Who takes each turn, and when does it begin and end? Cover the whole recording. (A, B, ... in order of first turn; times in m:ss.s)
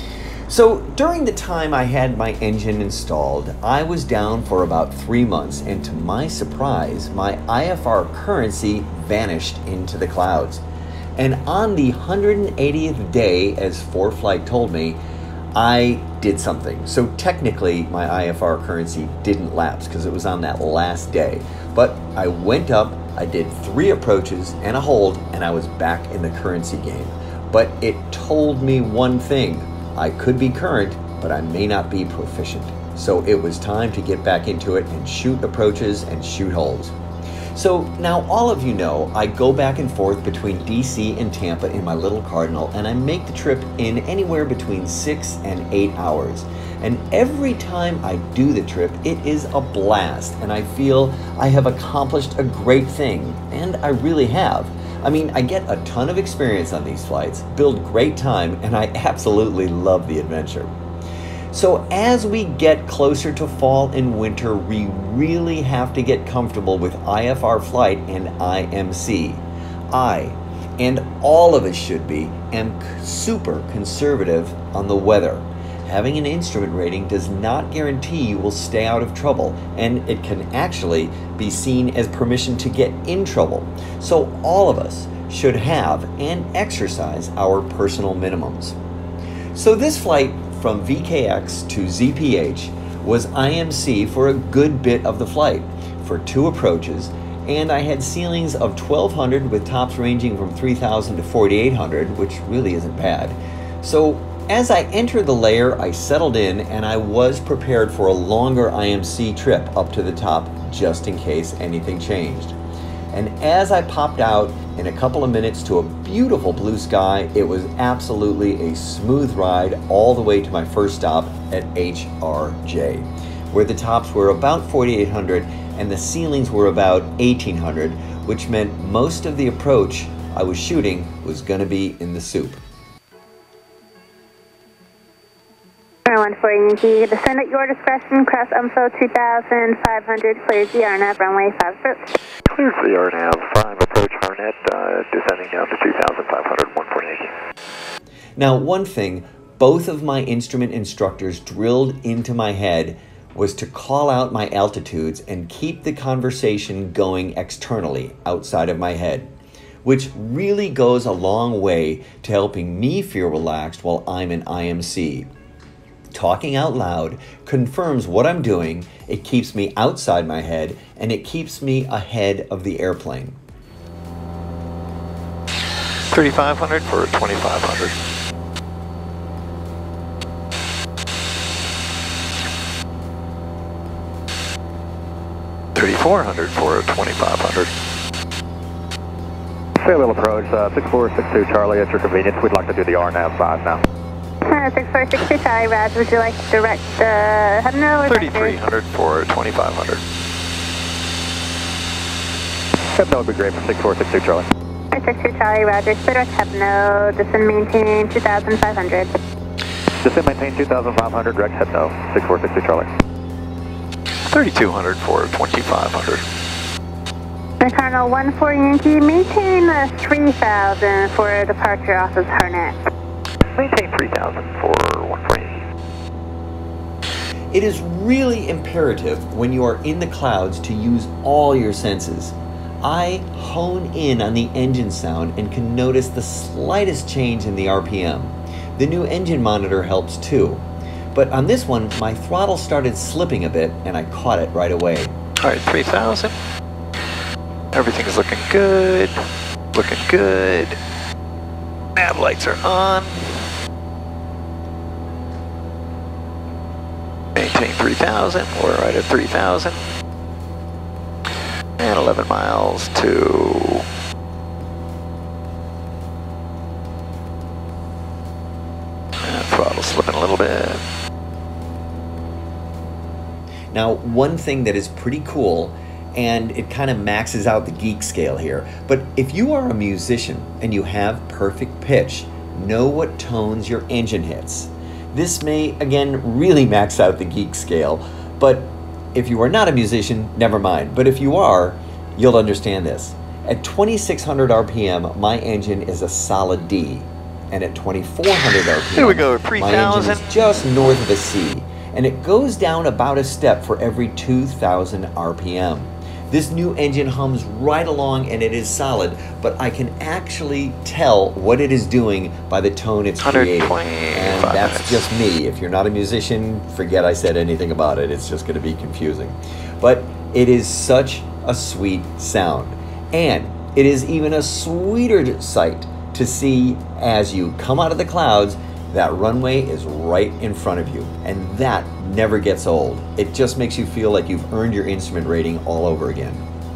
0:00.5-0:10.6 A
0:11.2-0:15.0 A
0:15.6-0:36.9 A
0:37.5-1:00.7 A
1:01.5-1:28.8 A
1:29.5-1:52.6 A
1:53.1-2:12.6 A
2:16.1-2:22.1 B
2:22.5-2:27.3 C
2:28.4-2:39.3 A
2:39.8-2:45.3 A
2:46.1-2:53.4 A
2:56.1-2:58.0 C
3:05.8-3:07.7 C
3:09.8-3:13.8 D
3:14.4-3:18.6 B
3:18.1-3:20.0 C
3:23.0-3:24.5 D
3:24.9-3:29.1 B
3:30.0-3:32.9 D
3:34.3-3:36.2 C
3:37.6-3:42.8 B
3:43.6-3:45.6 C
3:47.5-4:05.1 A
4:05.4-4:06.3 C
4:07.7-4:10.8 C
4:12.0-4:13.5 C
4:17.4-4:19.8 C
4:21.8-4:23.8 C
4:29.2-4:30.8 C
4:33.7-5:36.5 A
4:58.9-5:00.4 C
5:13.2-5:15.0 C